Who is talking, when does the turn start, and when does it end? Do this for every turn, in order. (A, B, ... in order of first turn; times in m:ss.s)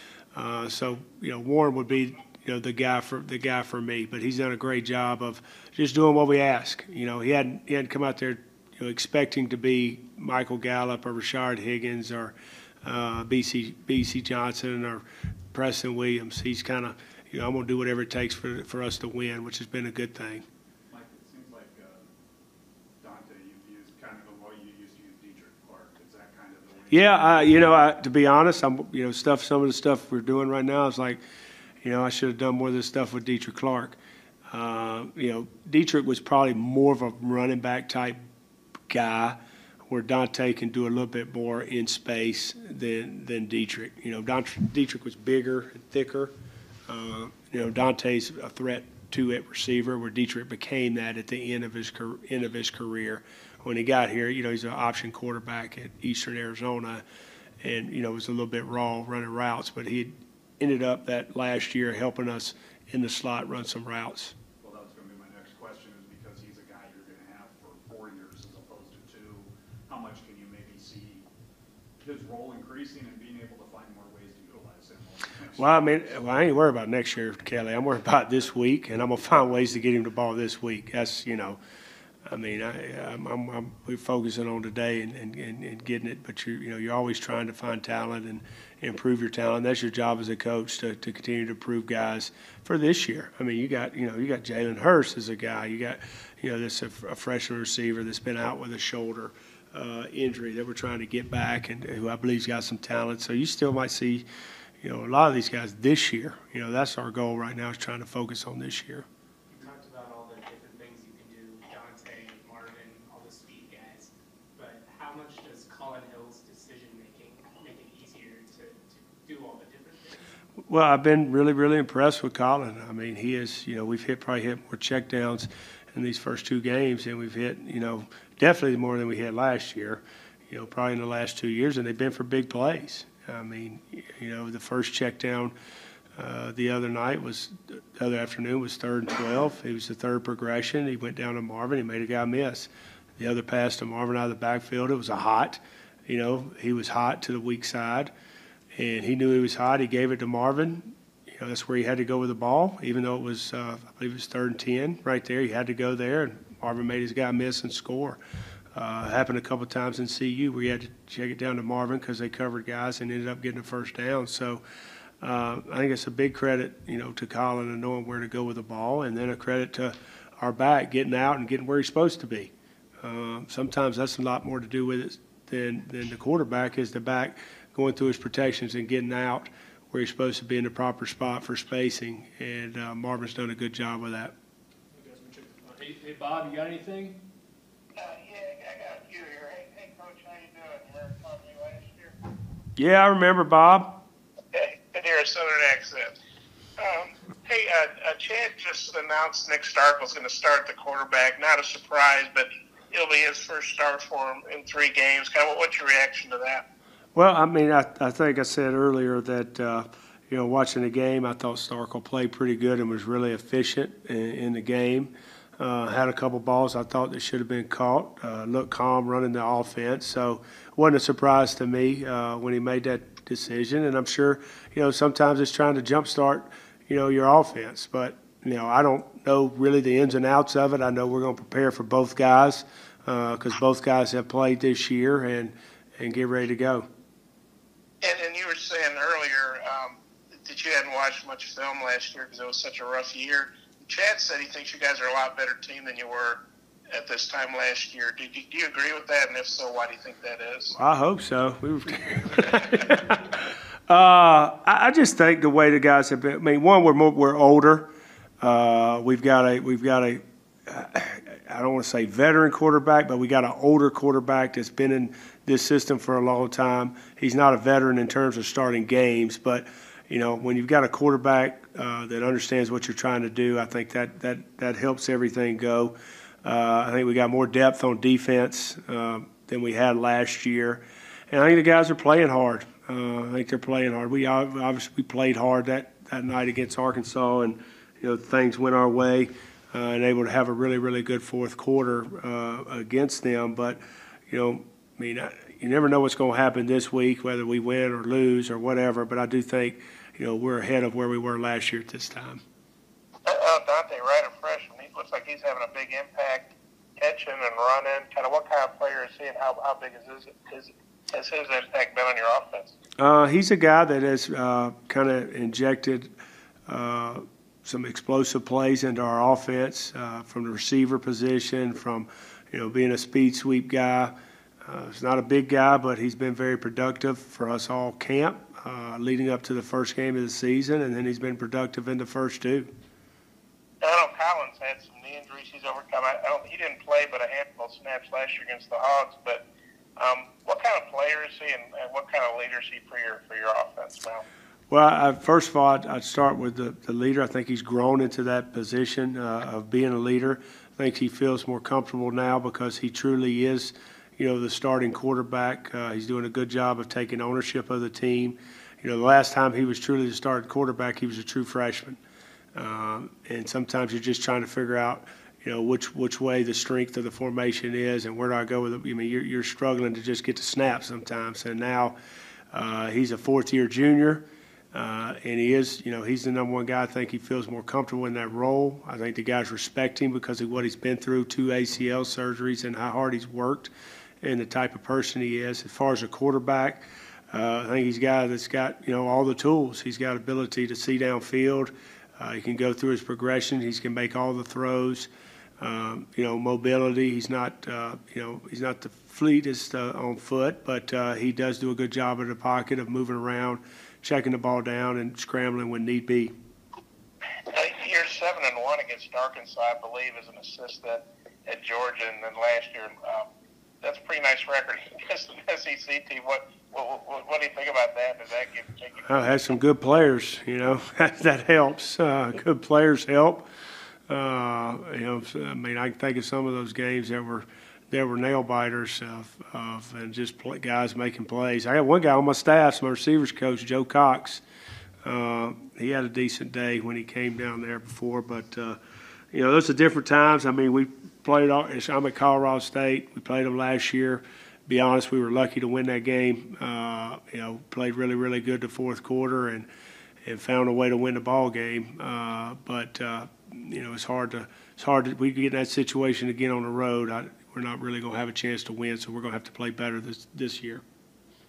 0:00.3-0:20.4 A
0:20.9-0:22.1 B
0:23.0-0:27.8 B
0:26.9-0:31.2 A
0:31.8-0:34.0 A
0:34.5-0:38.2 A
0:38.9-0:46.3 A
0:46.9-0:57.0 A
0:57.6-1:04.4 A
1:04.6-1:11.3 B
1:12.0-1:16.2 B
1:15.6-1:21.6 A
1:22.3-1:44.2 A
1:44.8-1:49.1 A
1:49.5-2:00.4 C
2:00.7-2:15.5 A
2:16.2-2:28.1 A
2:28.8-2:38.2 A
2:38.7-2:44.6 A
2:45.2-3:04.4 A
3:04.9-3:07.2 D
3:08.0-3:12.2 E
3:12.8-3:14.0 A
3:14.5-3:16.2 E
3:16.8-3:26.6 E
3:27.2-3:56.9 A
3:58.0-4:10.7 E
4:10.7-5:02.4 A
5:03.3-5:12.7 E
5:13.0-5:16.1 A
5:16.7-5:32.7 A
5:33.8-5:39.4 E
5:40.0-5:44.2 E
5:44.7-6:02.0 A
6:02.6-6:12.0 A
6:12.5-6:46.3 A
6:47.5-6:53.3 E
6:53.8-6:59.2 E
6:59.1-7:03.5 A
7:04.1-7:14.4 A
7:15.0-7:18.8 A
7:19.3-7:29.7 A
7:30.2-7:40.8 A